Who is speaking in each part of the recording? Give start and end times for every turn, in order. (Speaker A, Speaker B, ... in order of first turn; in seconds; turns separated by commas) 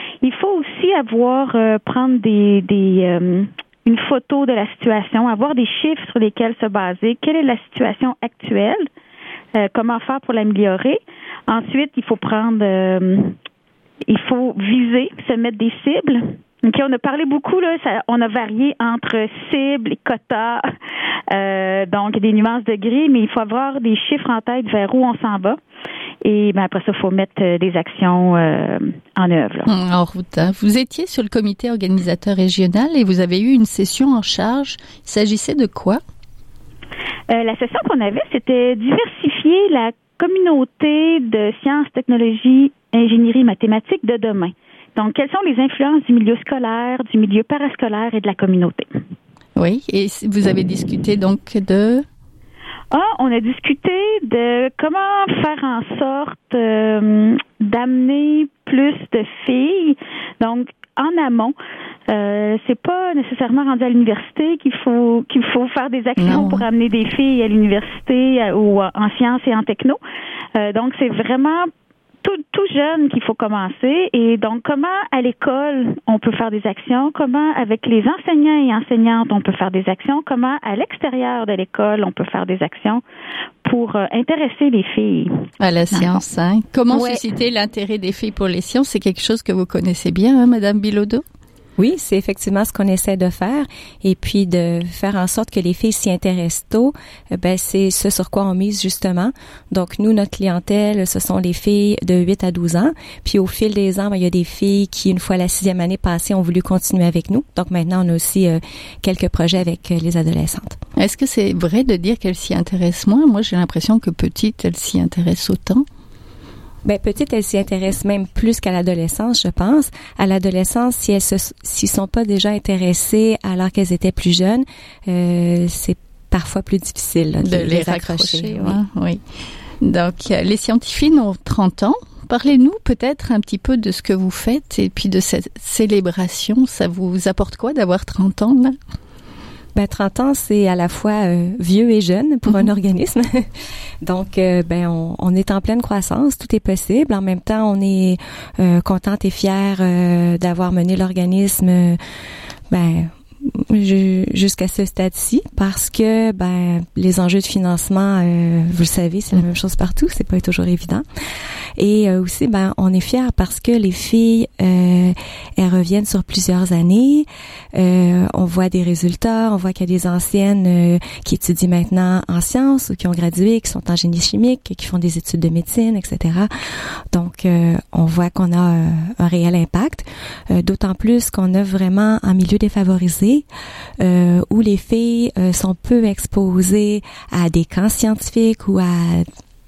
Speaker A: 0.2-8.9, Speaker A: 9.6-13.3, Speaker A: 14.1-20.7, Speaker A: 21.3-25.6, Speaker A: 26.2-29.7, Speaker B: 29.7-36.0, Speaker A: 37.3-48.9, Speaker B: 49.5-52.0, Speaker A: 52.9-61.5, Speaker A: 62.1-70.0, Speaker B: 66.2-66.6, Speaker A: 70.5-71.7, Speaker A: 72.2-83.0, Speaker A: 83.6-86.2, Speaker B: 85.6-91.2, Speaker A: 86.9-87.2, Speaker C: 91.8-110.8, Speaker B: 111.0-115.8, Speaker C: 116.8-128.8, Speaker B: 127.4-129.2, Speaker B: 129.8-138.8, Speaker C: 139.7-143.5, Speaker C: 144.0-152.0, Speaker C: 152.7-161.0, Speaker C: 161.8-176.5, Speaker C: 177.1-183.4, Speaker C: 184.0-189.3